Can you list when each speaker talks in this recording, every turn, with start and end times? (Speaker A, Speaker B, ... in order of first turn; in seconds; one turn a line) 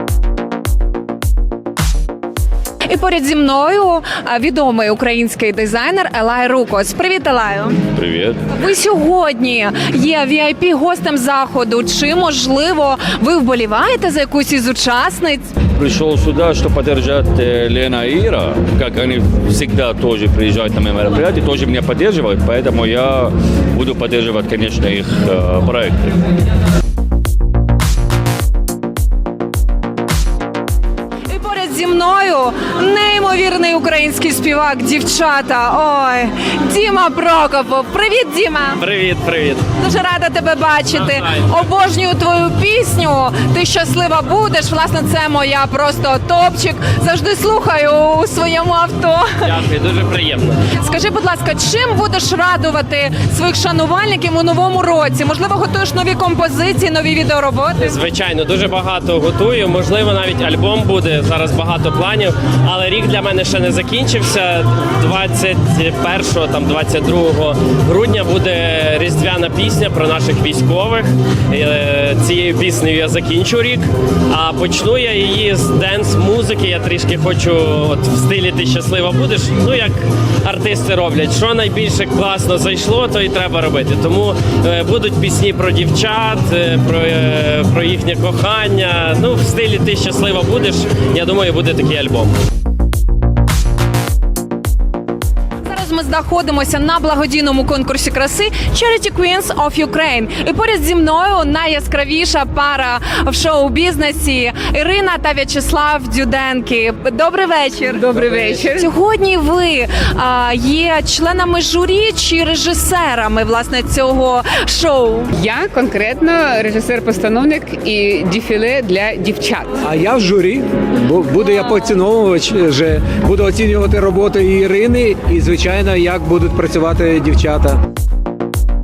Speaker A: 2.9-7.8
Speaker B: 8.0-8.3
Speaker A: 8.5-15.5
Speaker B: 15.8-26.1
Speaker A: 31.3-38.8
Speaker C: 38.8-39.6
Speaker A: 39.8-49.2
Speaker C: 41.1-41.5
Speaker C: 49.5-50.5
Speaker D: 50.1-50.4
Speaker A: 50.8-57.9
Speaker C: 57.8-71.0
Speaker D: 57.9-71.0
Speaker D: 71.5-73.7
Speaker C: 71.5-79.9
Speaker D: 74.3-79.9
Speaker D: 80.5-88.0
Speaker C: 80.5-92.3
Speaker D: 88.6-92.3
Speaker A: 95.6-115.3
Speaker D: 108.0-108.8
Speaker D: 115.4-119.7
Speaker E: 119.8-127.8